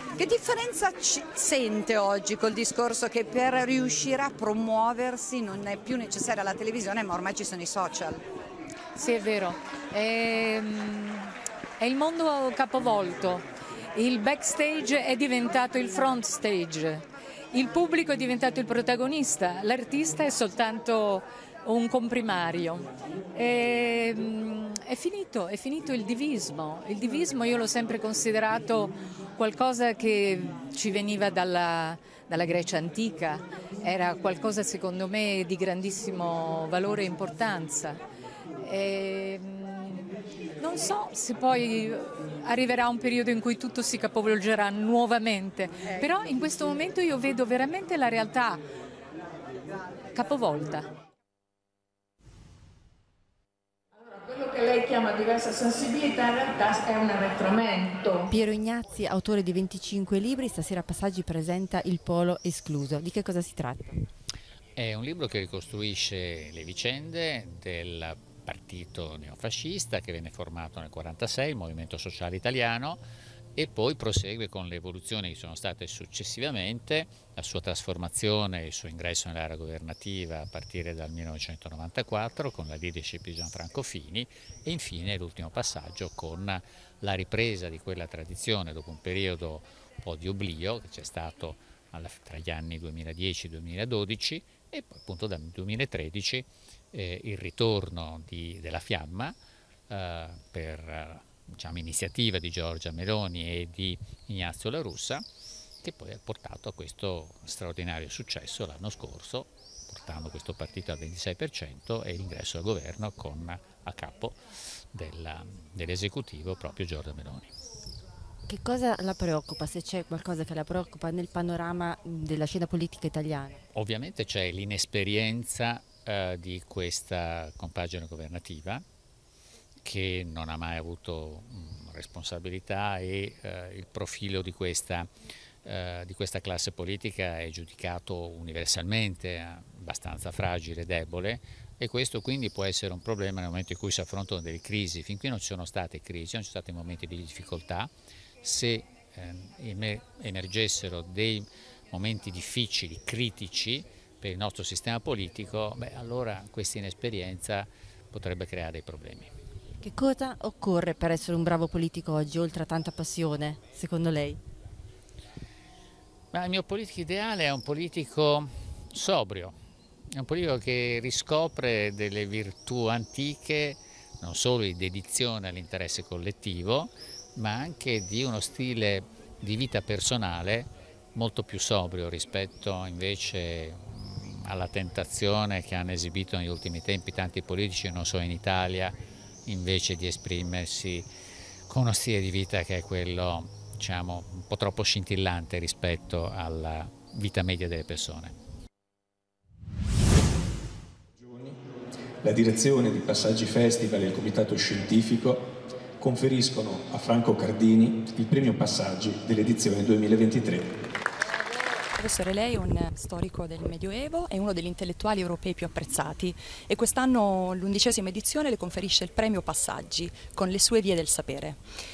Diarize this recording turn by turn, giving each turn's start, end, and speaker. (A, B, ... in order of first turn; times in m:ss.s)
0:00.2-0:08.2 A
0:09.0-0:38.0 B
0:38.6-0:48.6 B
0:50.1-0:50.9 B
0:54.0-0:58.3 C
0:58.3-1:04.0 D
1:04.8-1:13.0 E
1:13.6-1:39.4 E
1:39.9-1:45.3 E
1:45.8-1:57.6 E
1:58.5-2:03.6 D
2:03.7-2:08.8 E
2:09.8-2:15.1 E
2:15.6-2:27.9 E
2:28.4-2:39.3 E
2:39.8-2:44.4 D
2:46.3-2:49.6 E
2:50.1-3:11.1 E
3:11.7-3:18.4 E
3:21.2-3:21.6 F
3:22.2-3:30.8 F
3:32.0-3:41.6 G